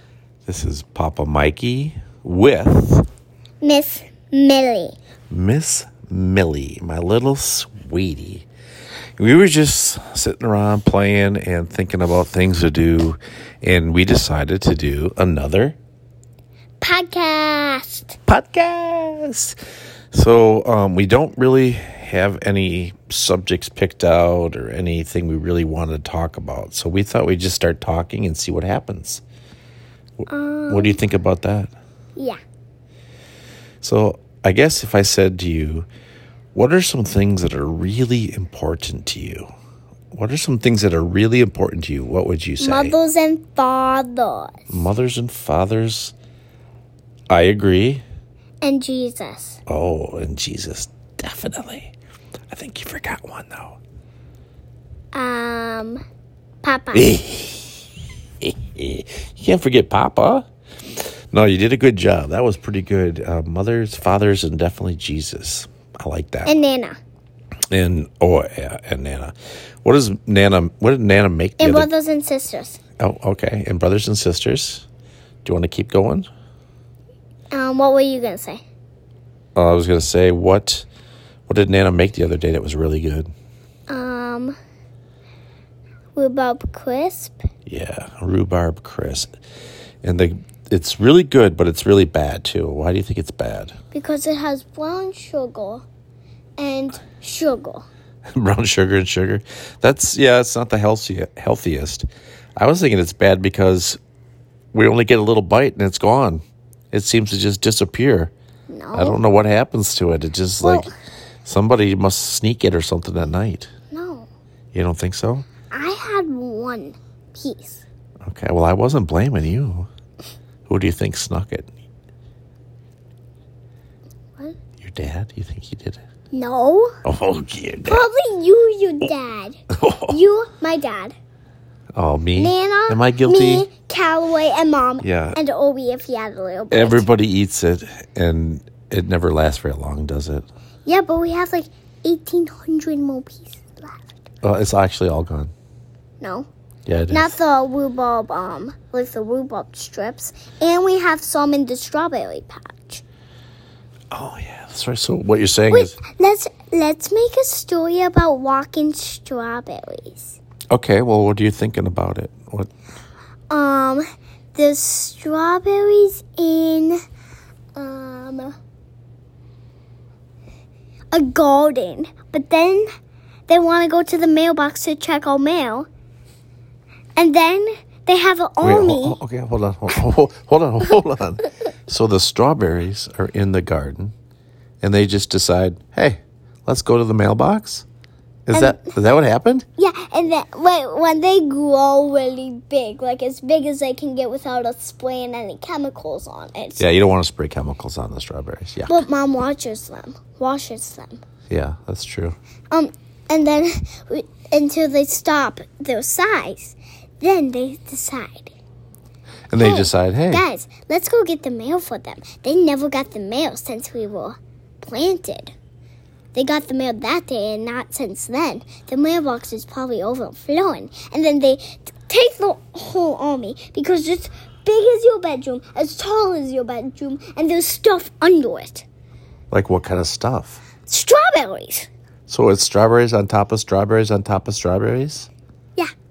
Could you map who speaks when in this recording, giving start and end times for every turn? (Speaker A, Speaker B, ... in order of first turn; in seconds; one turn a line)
Speaker A: 0.5-3.1
Speaker B: 3.6-5.0
Speaker A: 5.3-8.5
Speaker A: 9.2-15.8
Speaker B: 16.8-18.2
Speaker A: 18.3-19.6
Speaker A: 20.1-29.2
Speaker A: 30.2-31.7
Speaker B: 30.3-31.0
Speaker A: 33.8-35.9
Speaker A: 36.5-39.5
Speaker A: 40.1-43.0
Speaker B: 42.6-44.6
Speaker A: 44.7-46.1
Speaker A: 47.3-48.0
Speaker B: 48.6-49.6
Speaker A: 49.7-51.9
Speaker A: 52.5-53.8
Speaker B: 55.1-56.0
Speaker B: 56.6-57.1
Speaker A: 56.9-57.8
Speaker A: 58.4-60.5
Speaker A: 61.3-66.5
Speaker B: 66.5-67.0
Speaker A: 67.7-71.9
Speaker B: 71.6-72.8
Speaker A: 73.0-74.9
Speaker A: 75.5-76.3
Speaker B: 77.5-78.6
Speaker A: 79.5-80.9
Speaker A: 81.5-83.3
Speaker B: 83.9-84.6
Speaker B: 86.2-87.5
Speaker A: 87.7-89.3
Speaker A: 90.0-93.8
Speaker B: 93.9-95.8
Speaker B: 96.6-97.9
Speaker A: 98.4-104.0
Speaker A: 104.7-108.3
Speaker B: 108.7-109.2
Speaker A: 108.9-110.9
Speaker B: 110.6-110.9
Speaker A: 111.5-113.7
Speaker B: 113.9-114.3
Speaker A: 114.7-115.5
Speaker B: 115.7-117.8
Speaker A: 118.2-119.9
Speaker A: 120.7-121.7
Speaker A: 124.8-126.0
Speaker B: 126.3-126.9
Speaker A: 127.0-128.1
Speaker B: 127.8-129.6
Speaker A: 129.7-130.2
Speaker B: 130.1-131.2
Speaker A: 132.0-133.7
Speaker B: 132.4-137.1
Speaker A: 135.0-135.4
Speaker A: 136.7-140.5
Speaker B: 140.9-144.2
Speaker A: 144.4-145.5
Speaker B: 146.2-146.5
Speaker A: 146.9-147.4
Speaker B: 147.1-153.0
Speaker A: 154.1-156.0
Speaker B: 155.7-160.4
Speaker A: 160.7-162.7
Speaker B: 163.5-164.0
Speaker B: 164.6-167.0
Speaker B: 167.8-168.6
Speaker B: 171.1-172.9
Speaker B: 173.5-175.9
Speaker B: 177.2-179.2
Speaker A: 178.6-184.1
Speaker A: 184.8-187.8
Speaker A: 188.5-189.7
Speaker B: 188.5-188.9
Speaker B: 189.8-196.8
Speaker A: 196.8-199.0
Speaker B: 198.9-201.2
Speaker A: 201.5-202.4
Speaker B: 202.7-208.6
Speaker A: 209.5-210.4
Speaker B: 209.6-215.5
Speaker B: 216.3-228.8
Speaker A: 229.5-230.6
Speaker B: 230.9-231.9
Speaker A: 232.3-235.3